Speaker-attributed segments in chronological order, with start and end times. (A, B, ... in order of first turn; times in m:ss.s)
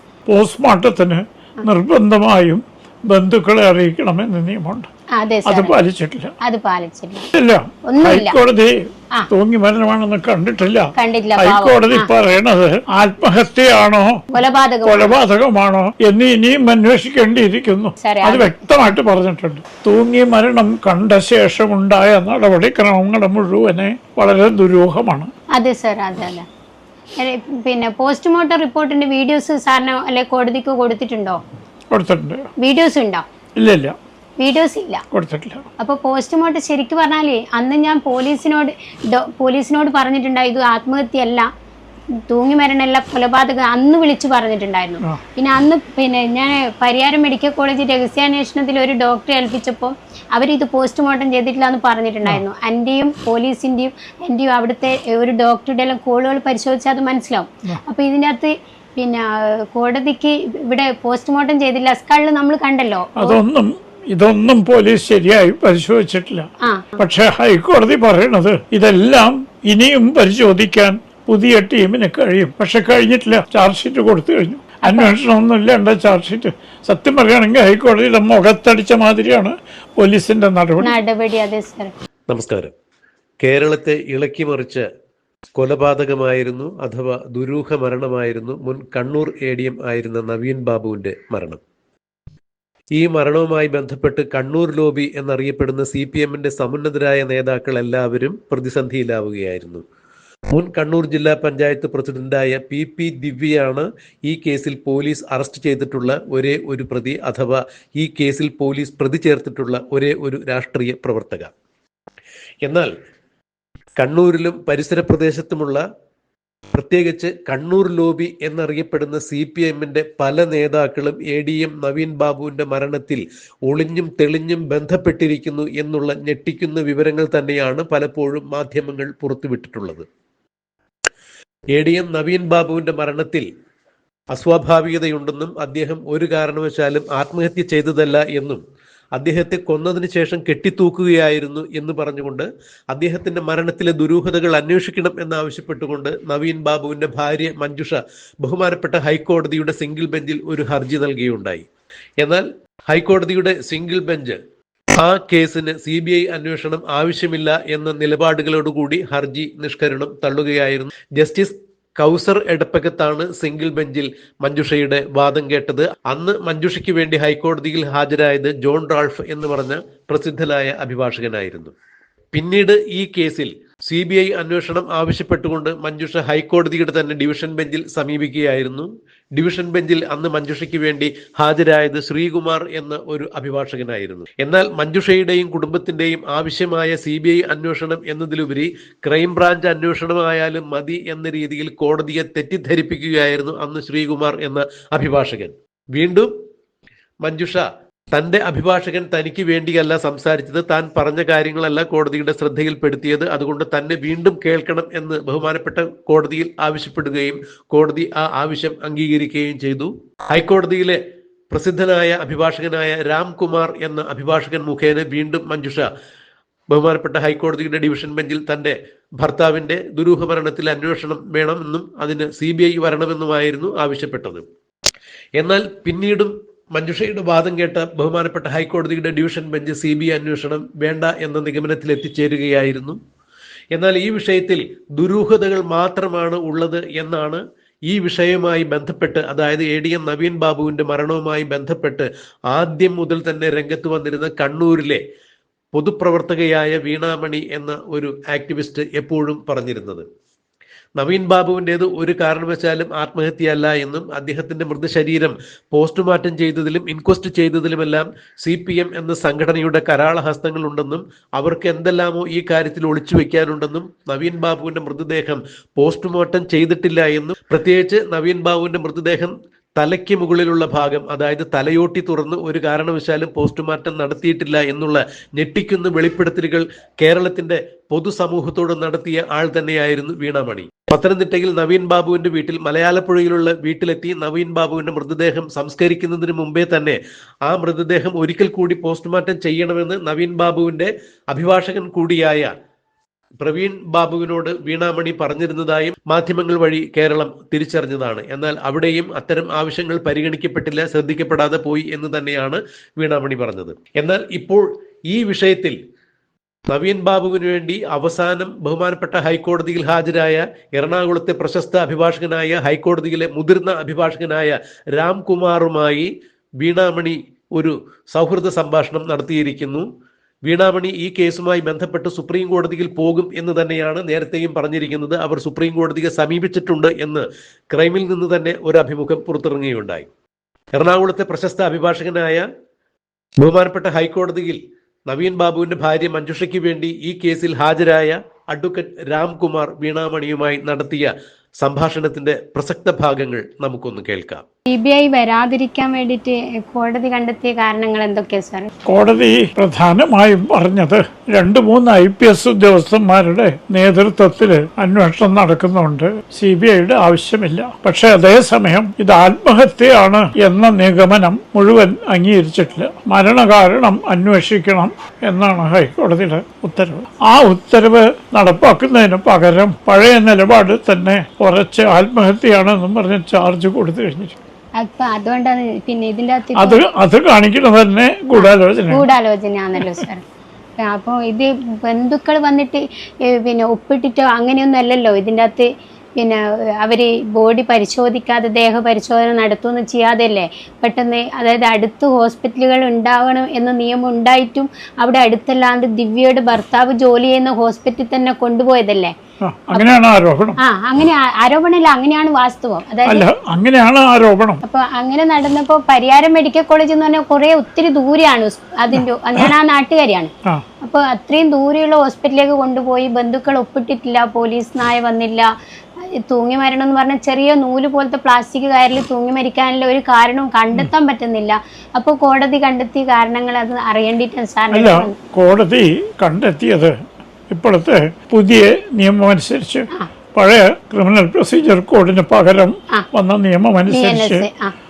0:00.3-0:04.9 A
0:05.2-0:05.8 B
0:05.5-0:06.3 A
0:06.4-0:07.3 B
0:07.3-0:08.8 A
0:07.9-0:08.4 B
0:09.3-0:14.2 A
0:11.0-0:12.1 B
0:14.3-0:15.2 B
0:14.9-0:25.3 A
0:18.0-0:18.6 B
0:25.6-0:26.4 B
0:27.2-0:31.4 B
0:31.9-0:32.4 A
0:32.6-0:33.2 B
0:33.6-0:33.9 A
0:34.4-0:35.0 B
0:35.1-0:35.7 A
0:35.8-0:41.5 B
0:42.3-1:03.4 B
1:03.2-1:06.5 A
1:06.6-1:06.9 B
1:07.0-1:21.0 A
1:14.8-1:15.1 B
1:20.8-1:21.9 B
1:22.3-1:22.7 C
1:23.4-1:24.8 C
1:25.5-1:31.6 C
1:33.0-1:39.8 C
1:40.5-1:51.5 C
1:52.6-1:52.9 C
1:54.0-1:55.8 C
1:56.7-2:10.0 C
2:11.7-2:13.4 C
2:14.3-2:18.6 C
2:19.2-2:31.6 C
2:32.2-2:34.4 C
2:35.0-2:51.7 C
2:52.3-3:16.3 C
3:17.2-3:31.0 C
3:31.5-3:35.9 C
3:36.7-3:44.4 C
3:45.4-3:53.0 C
3:53.7-4:05.0 C
4:05.7-4:10.0 C
4:11.0-4:52.5 C
4:53.4-5:05.8 C
5:06.7-5:16.1 C
5:16.6-5:19.9 C
5:20.4-5:30.1 C
5:30.8-5:32.4 C
5:33.4-5:44.4 C
5:44.7-5:48.7 B
5:48.9-6:14.4 A
6:14.8-6:16.8 B
6:16.6-6:19.0 A
6:18.4-6:20.2 B
6:20.8-6:25.7 B
6:26.2-6:39.1 B
6:39.4-6:40.6 A
6:40.6-6:43.2 B
6:43.1-6:44.6 A
6:44.6-6:50.3 B
6:49.0-6:49.5 A
6:50.8-6:55.5 B
6:56.3-7:05.1 B
7:04.7-7:07.0 A
7:07.5-7:14.4 A
7:13.9-7:14.8 B